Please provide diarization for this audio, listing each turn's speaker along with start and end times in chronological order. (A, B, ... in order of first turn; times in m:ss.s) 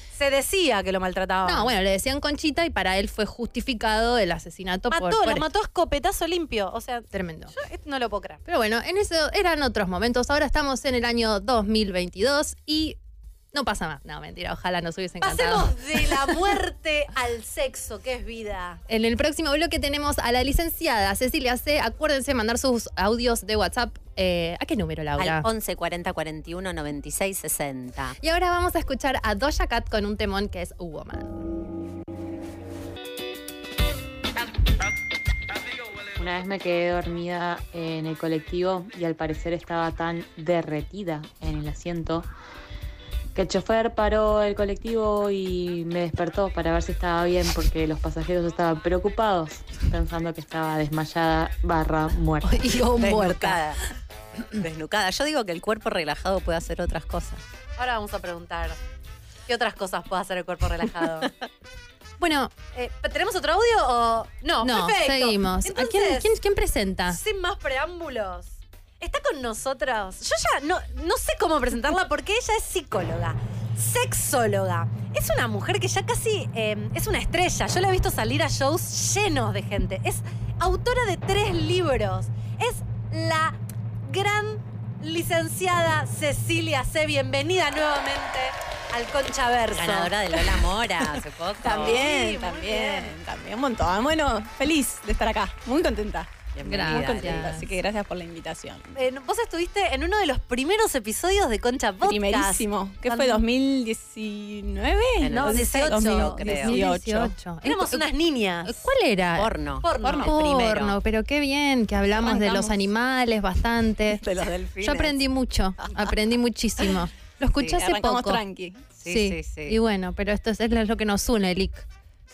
0:00.1-0:01.7 A
0:01.4-0:05.4 B
0:04.9-0:08.4 A
0:07.1-0:07.5 B
0:08.5-0:13.0 B
0:13.5-0:16.4 B
0:15.2-0:18.8 A
0:18.9-0:25.5 B
0:25.2-0:28.2 C
0:28.2-0:31.5 B
0:36.1-0:42.3 D
0:43.4-0:52.6 D
0:52.4-0:53.6 B
0:53.0-0:53.8 C
0:54.6-0:57.4 C
0:57.8-0:58.8 A
0:59.5-1:01.3 A
1:02.2-1:02.5 B
1:02.7-1:06.3 A
1:04.6-1:07.2 B
1:07.1-1:30.1 A
1:29.7-1:32.0 C
1:31.6-1:38.9 E
1:31.7-1:33.2 A
1:36.5-1:37.5 C
1:36.6-1:37.7 B
1:38.9-1:43.4 A
1:42.0-1:47.4 E
1:45.2-1:46.8 C
1:45.3-1:46.6 A
1:45.8-1:48.1 B
1:47.6-1:48.8 A
1:48.7-1:49.5 B
1:49.4-1:51.0 C
1:49.8-1:50.4 A
1:50.2-1:54.2 B
1:52.2-1:52.8 E
1:54.2-1:55.2 C
1:54.8-1:58.4 B
1:57.8-1:58.9 E
1:59.0-1:59.8 C
1:59.0-2:01.9 B